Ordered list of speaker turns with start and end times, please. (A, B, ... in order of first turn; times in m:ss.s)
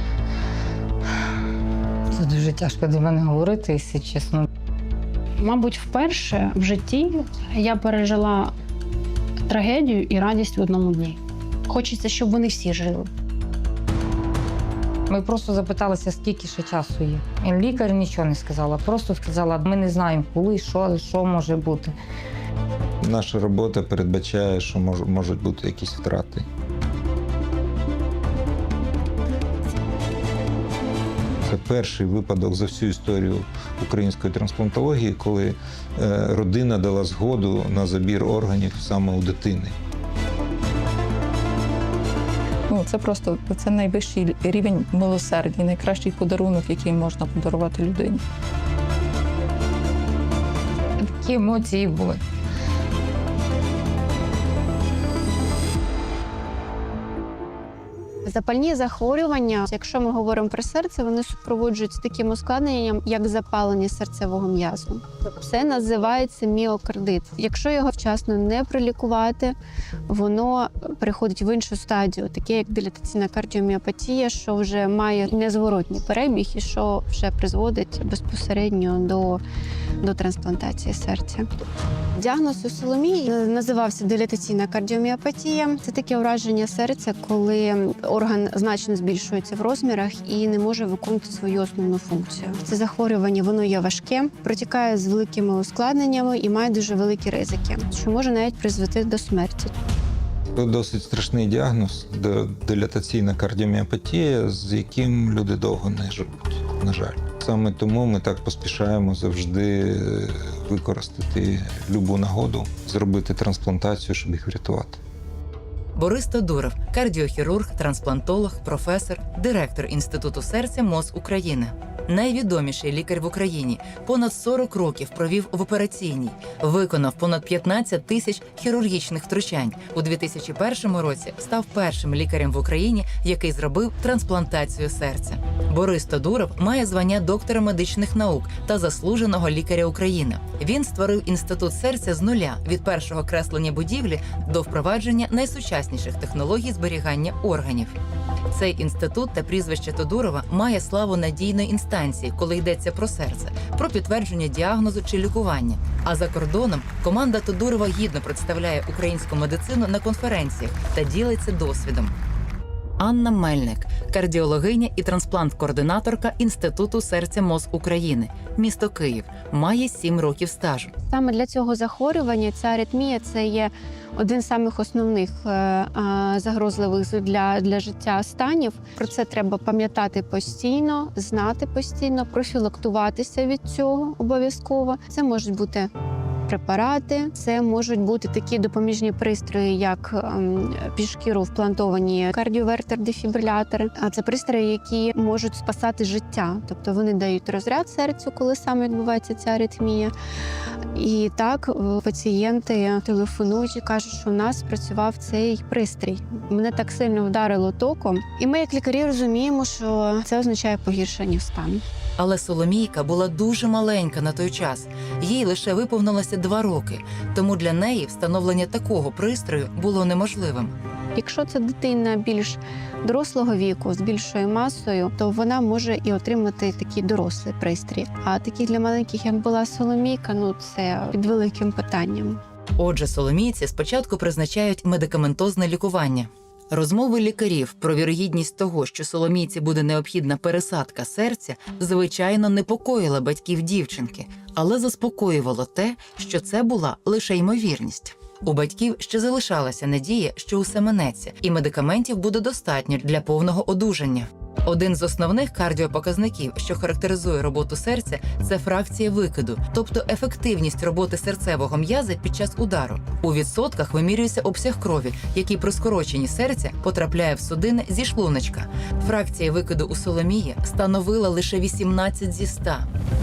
0:02.1-0:04.4 A
0:05.4-0:08.5 B
0:09.5-0:13.1 B
0:15.1-0:21.9 A
0:23.0-0:26.4 C
0:31.4-0:39.7 C
0:42.7-0:48.2 D
0:51.0-0:52.2 A
0:58.2-1:09.6 E
1:10.1-1:19.4 E
1:20.0-1:21.5 E
1:22.2-1:39.7 E
1:40.5-1:55.0 C
1:55.9-2:28.0 F
2:28.5-2:42.1 F
2:43.0-2:50.9 F
2:51.1-3:05.9 E
3:06.4-3:20.1 E
3:20.9-3:31.8 E
3:32.2-3:40.7 F
3:41.2-3:52.4 E
3:52.8-4:32.9 F